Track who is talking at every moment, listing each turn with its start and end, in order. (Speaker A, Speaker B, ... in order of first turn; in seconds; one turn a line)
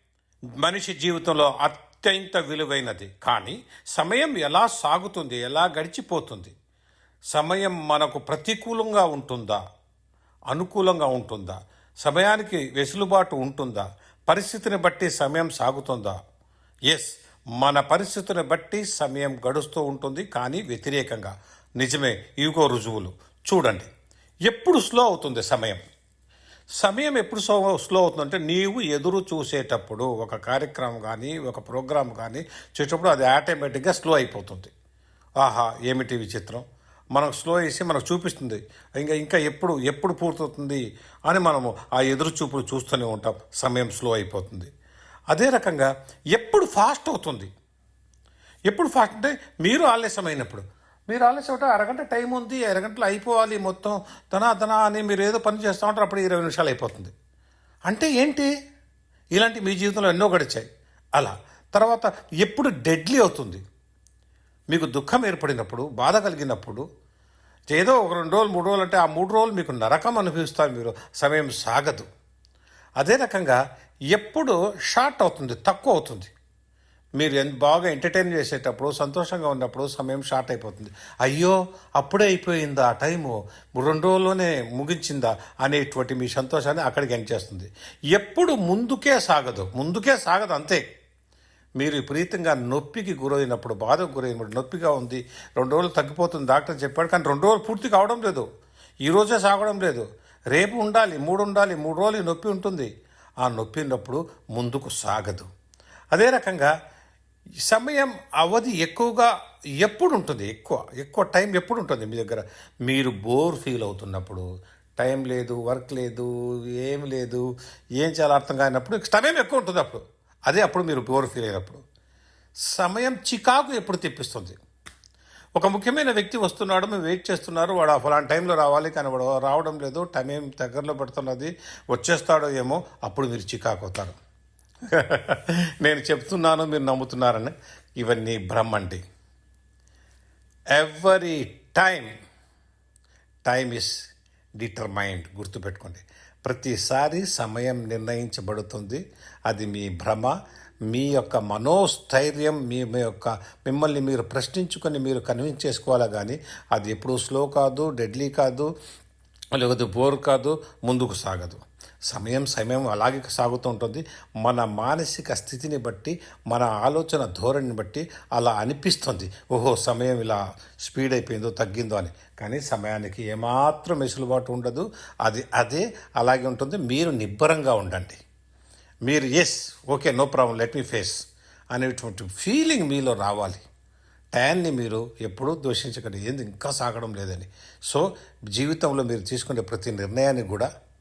Speaker A: 0.6-6.5
Speaker A: 7.3-9.6
Speaker A: 10.5-16.2
Speaker A: 16.9-23.9
Speaker A: 24.5-25.8
Speaker A: 26.8-34.7
Speaker A: 35.4-44.7
Speaker A: 45.3-47.5
Speaker A: 48.7-57.1
Speaker A: 57.9-58.5
Speaker A: 59.4-63.6
Speaker A: 64.7-66.8
Speaker A: 67.7-72.1
Speaker A: 73.0-73.6
Speaker A: 74.1-76.3
Speaker A: 77.2-90.8
Speaker A: 91.8-98.5
Speaker A: 99.1-102.9
Speaker A: 103.4-105.5
Speaker A: 106.1-106.7
Speaker A: 107.7-114.4
Speaker A: 115.0-116.3
Speaker A: 116.8-117.5
Speaker A: 118.0-121.8
Speaker A: 122.7-124.6
Speaker A: 125.6-134.2
Speaker A: 134.9-139.0
Speaker A: 140.8-142.1
Speaker A: 143.4-144.0
Speaker A: 144.6-150.3
Speaker A: 150.9-158.7
Speaker A: 159.6-178.2
Speaker A: 179.1-181.2
Speaker A: 181.7-183.6
Speaker A: 184.3-190.7